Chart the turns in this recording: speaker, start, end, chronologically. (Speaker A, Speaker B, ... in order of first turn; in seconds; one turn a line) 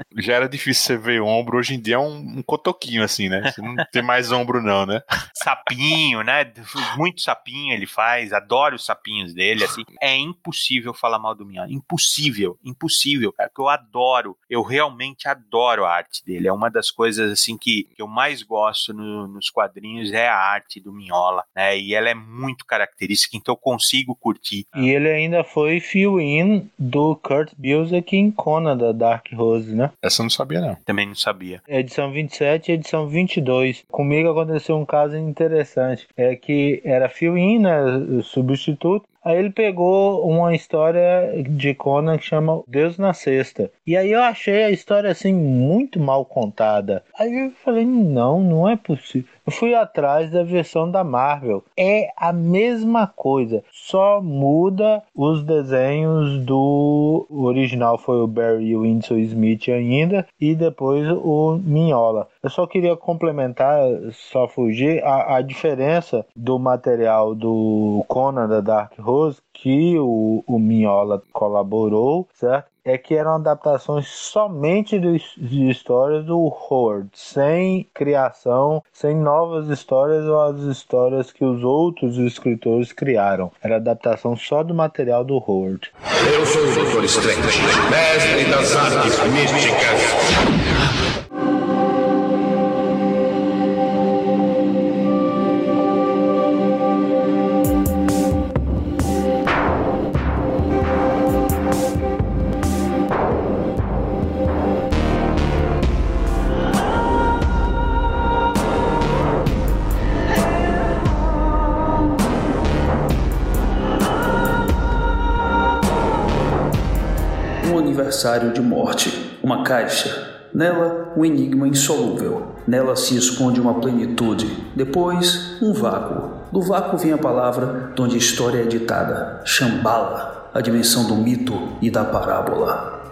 Speaker A: 0.1-5.0
Speaker B: 5.4-24.9
Speaker C: 24.7-29.9
Speaker A: 30.0-30.8
Speaker B: 30.9-31.6
Speaker C: 31.7-85.9
Speaker D: 86.2-90.2
Speaker E: 117.6-132.9